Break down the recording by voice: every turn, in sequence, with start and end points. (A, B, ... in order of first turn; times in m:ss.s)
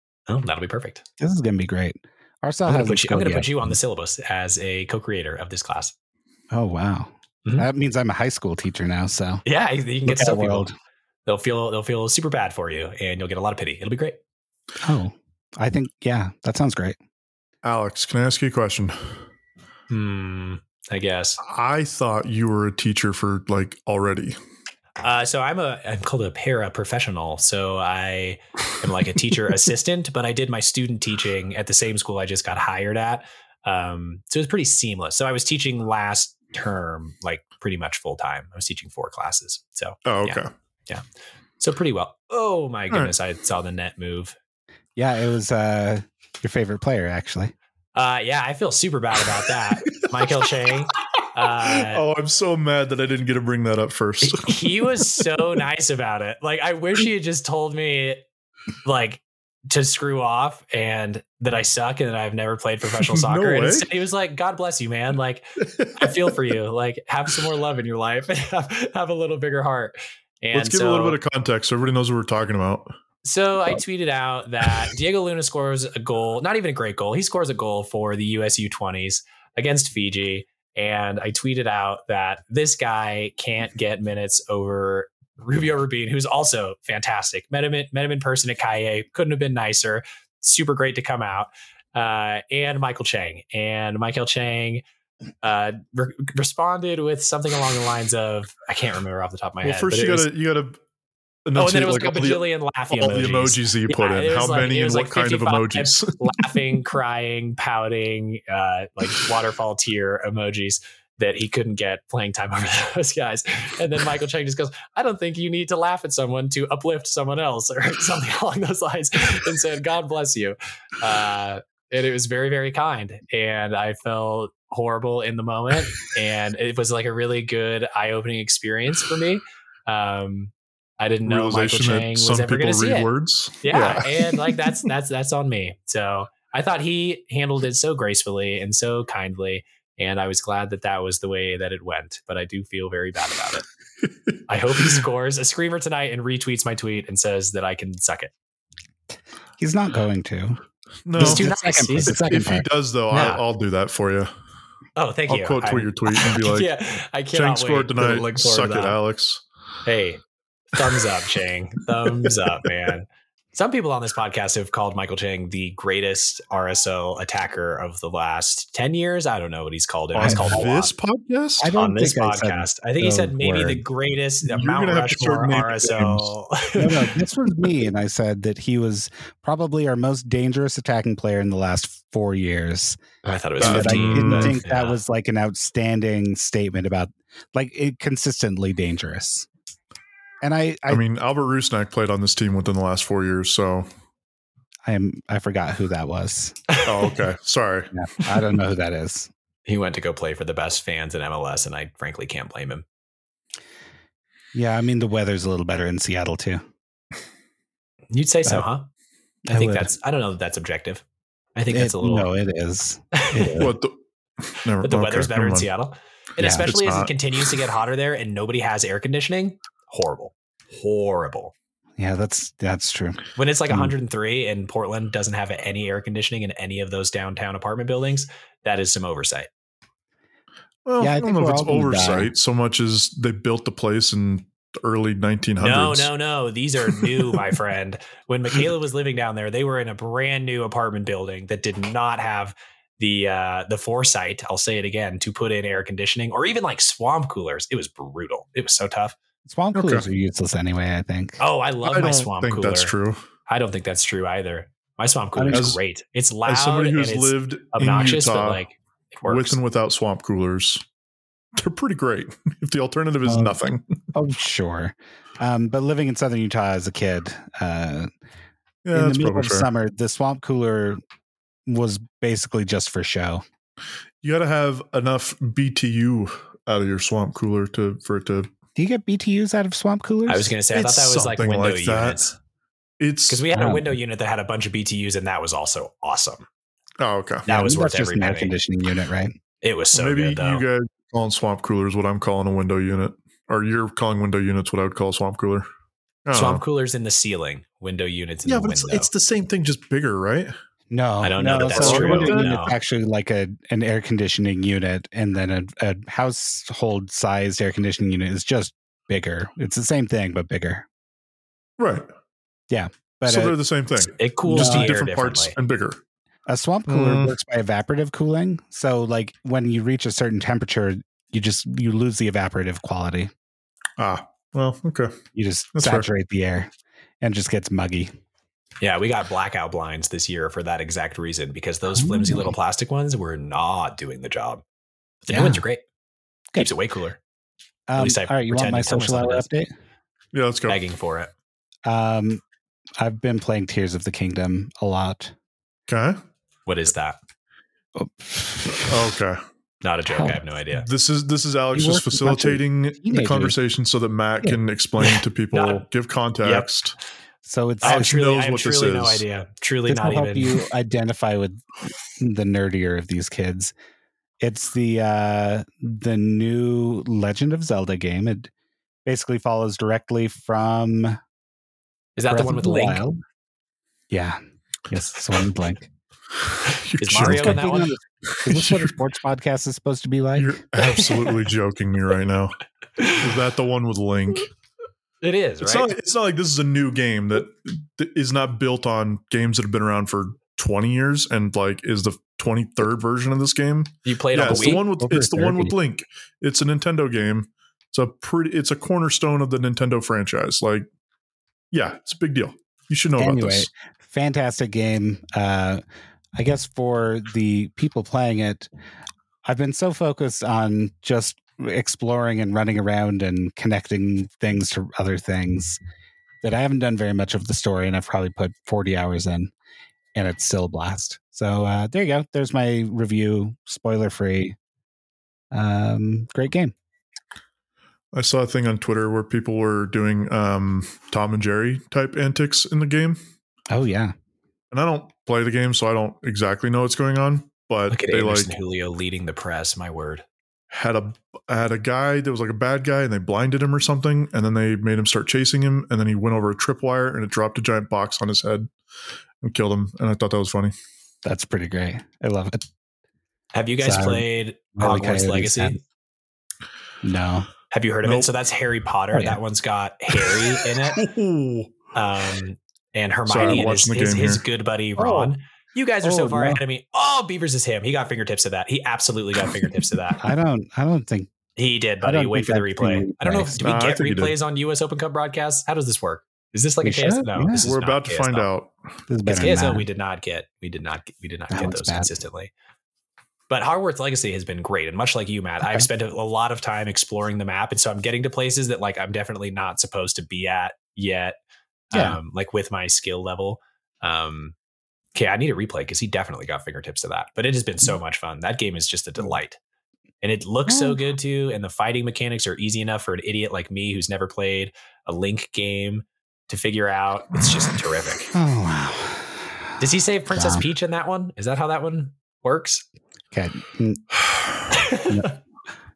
0:00.3-0:01.0 A
0:01.2-0:03.7 B
0:02.7-0:05.9 A
0:06.5-0:09.4 B
0:09.4-0:10.7 A
0:10.0-0:10.7 B
0:11.2-0:14.2 A
0:14.8-0:17.0 B
0:17.6-0:19.2 C
0:19.9-0:21.4 A
0:21.4-0:24.4 C
0:25.0-0:41.0 A
0:40.0-0:40.5 C
0:41.6-0:44.4 A
0:45.0-0:47.5 B
0:47.9-0:52.0 A
0:51.6-0:55.2 C
0:54.2-0:58.2 A
0:58.8-1:11.2 A
1:03.0-1:03.9 C
1:05.6-1:06.3 C
1:10.5-1:12.9 C
1:13.2-1:34.8 A
1:35.4-1:40.3 A
1:39.6-1:40.8 C
1:41.4-1:46.6 C
1:41.6-2:13.1 A
2:11.2-2:14.9 C
2:13.6-2:23.6 A
2:24.5-2:28.3 A
2:29.6-2:30.6 B
2:31.0-2:31.5 C
2:31.2-2:32.6 B
2:31.2-2:32.2 A
2:32.0-2:34.3 C
2:33.1-2:33.4 A
2:35.0-2:39.0 A
2:35.3-2:36.7 C
2:37.3-2:39.4 C
2:39.8-2:50.9 A
2:50.1-2:51.8 C
2:50.2-2:50.6 B
2:51.6-2:53.8 B
2:51.7-2:57.1 A
2:54.4-2:56.3 C
2:56.8-3:03.0 B
3:03.2-3:05.0 A
3:03.6-3:04.6 C
3:03.6-3:09.5 B
3:10.4-3:11.0 B
3:10.9-3:13.9 C
3:14.8-3:16.6 B
3:16.7-3:17.1 A
3:16.8-3:17.9 C
3:17.9-3:19.3 B
3:19.7-3:22.8 A
3:24.5-3:26.6 B
3:28.1-3:28.9 A
3:29.4-3:29.9 B
3:29.5-3:31.0 A
3:31.6-3:32.3 A
3:31.7-3:33.7 B
3:33.1-3:33.7 A
3:33.6-3:34.0 C
3:34.5-3:35.7 C
3:34.8-3:41.5 A
3:36.4-3:36.7 B
3:36.6-3:37.1 C
3:42.0-3:43.9 B
3:43.4-3:49.5 A
3:50.8-3:56.1 C
3:51.0-3:52.3 B
3:55.6-4:09.2 A
4:09.4-4:11.4 B
4:09.7-4:10.0 C
4:11.4-4:12.9 A
4:11.8-4:13.2 C
4:13.5-4:19.6 A
4:15.4-4:15.6 B
4:15.5-4:15.8 C
4:16.5-4:18.6 C
4:19.2-4:20.8 C
4:21.5-4:23.9 C
4:23.2-4:23.6 B
4:24.1-4:28.1 B
4:28.8-4:29.7 C
4:28.9-4:31.0 B
4:31.7-4:33.4 B
4:34.2-4:38.5 C
4:38.8-4:40.5 B
4:40.3-4:42.3 A
4:40.7-4:42.3 C
4:43.0-4:43.4 C
4:43.3-4:46.4 A
4:43.5-4:43.9 B
4:47.0-4:47.4 C
4:47.4-4:48.5 A
4:47.5-4:49.3 B
4:49.6-4:50.6 A
4:49.9-4:55.6 C
4:56.2-4:56.6 C
4:56.3-4:59.1 A
4:58.4-5:00.5 C
5:00.9-5:10.8 B
5:01.2-5:02.8 A
5:01.7-5:02.5 C
5:11.8-5:12.1 C
5:12.7-5:13.6 B
5:13.2-5:16.0 C
5:14.1-5:15.5 A
5:14.5-5:14.9 B
5:16.5-5:23.3 B
5:16.9-5:17.3 C
5:24.0-5:25.1 C
5:25.3-5:28.1 B
5:25.7-5:26.1 C
5:28.8-5:34.6 A
5:31.9-5:32.5 B
5:35.2-5:35.8 A
5:35.3-5:35.6 B
5:36.6-5:37.2 A
5:37.9-5:39.7 B
5:38.0-5:39.5 A
5:40.3-5:40.8 C
5:40.7-5:41.3 A
5:41.8-5:42.4 B
5:43.0-5:45.3 B
5:45.9-5:46.2 C
5:46.6-5:47.2 A
5:47.9-5:49.2 B
5:48.8-5:49.4 C
5:49.8-5:50.9 A
5:50.1-5:50.4 B
5:50.7-5:56.9 C
5:51.7-5:53.6 B
5:55.0-5:55.8 A
5:56.4-5:56.7 A
5:57.4-5:58.1 B
5:57.8-6:00.6 A
5:57.8-5:59.2 C
5:59.9-6:01.6 B
6:02.2-6:03.7 B
6:04.4-6:08.5 B
6:09.0-6:11.2 B
6:12.2-6:13.0 A
6:12.3-6:13.2 B
6:14.1-6:15.9 B
6:16.6-6:17.6 C
6:17.0-6:18.0 A
6:17.1-6:20.6 B
6:18.3-6:18.9 C
6:20.4-6:24.5 C
6:20.8-6:21.3 A
6:25.2-6:25.9 A
6:25.6-6:40.8 C
6:34.0-6:34.8 A
6:34.5-6:35.7 B
6:41.7-6:43.7 C
6:43.2-6:45.8 B
6:46.4-6:48.7 B
6:49.4-6:55.8 B
6:56.4-6:59.5 B
7:00.1-7:04.6 B
7:05.5-7:06.7 B
7:08.1-7:13.2 C
7:13.7-7:14.1 B
7:14.7-7:18.6 C
7:17.9-7:20.2 A
7:20.7-7:28.7 C
7:29.4-7:30.7 C
7:31.2-7:32.6 B
7:33.5-7:35.8 A
7:33.8-7:35.8 B
7:37.0-7:37.5 B
7:37.7-7:41.0 A
7:38.0-7:38.3 C
7:39.1-7:39.4 B
7:41.0-7:41.9 C
7:41.9-7:50.3 A
7:43.3-7:44.4 C
7:46.0-7:46.6 B
7:50.2-7:51.3 B
7:51.6-7:58.5 A
7:52.0-7:53.6 B
7:53.6-7:54.3 C
7:56.8-7:57.7 B
7:57.6-7:58.7 C
7:59.1-7:59.8 B
7:59.2-8:02.5 A
8:01.5-8:02.1 B
8:03.5-8:11.4 A
8:11.9-8:14.5 A
8:11.9-8:12.2 B
8:15.1-8:19.6 A
8:20.2-8:28.3 A
8:20.7-8:21.0 B
8:28.3-8:29.5 B
8:29.8-8:32.8 A
8:30.3-8:30.6 B
8:33.3-8:34.2 B
8:34.7-8:35.3 A
8:35.0-8:35.3 B